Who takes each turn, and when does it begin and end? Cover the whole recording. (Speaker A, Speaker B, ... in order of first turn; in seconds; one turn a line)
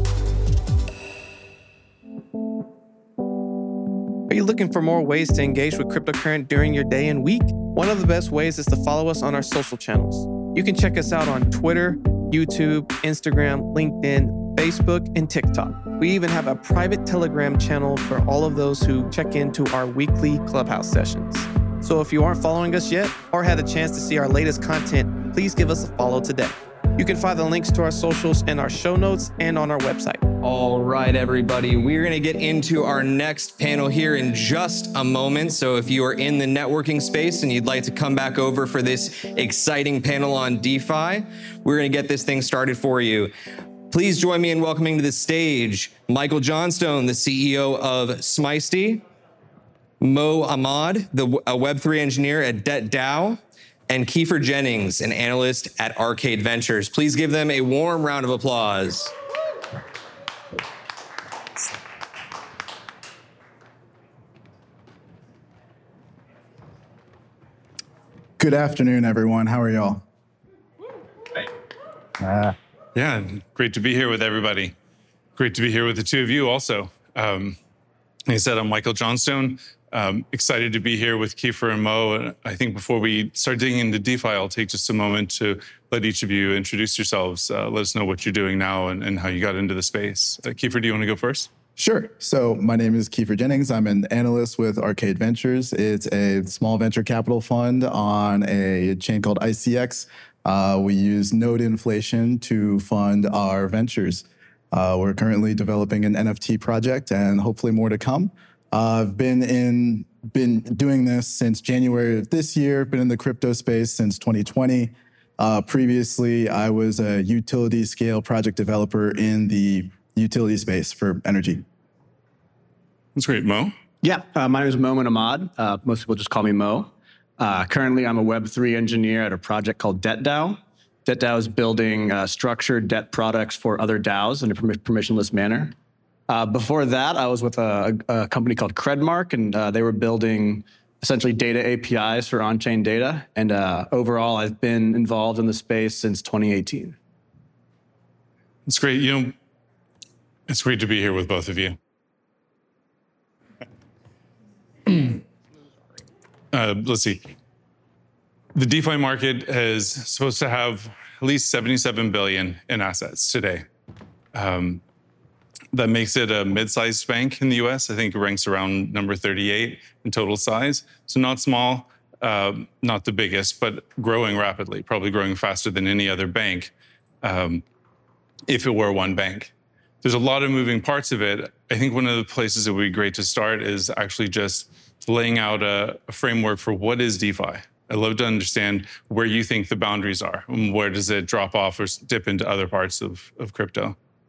Speaker A: 4.3-30.2
Speaker B: 30.4-43.3
Speaker B: 43.9-49.0
Speaker B: 50.0-59.1
Speaker C: 68.4-70.0
Speaker C: 72.2-72.5
Speaker D: 73.0-74.8
Speaker D: 75.4-77.6
Speaker D: 78.3-91.5
Speaker C: 91.8-121.6
Speaker D: 123.2-123.8
Speaker E: 124.0-135.7
Speaker E: 136.3-147.0
Speaker D: 148.7-149.3
Speaker D: 150.5-151.8
Speaker D: 154.9-155.2
Speaker D: 156.5-157.3
Speaker D: 158.5-163.7
Speaker D: 164.3-164.8
Speaker D: 165.7-177.6
Speaker D: 178.5-194.0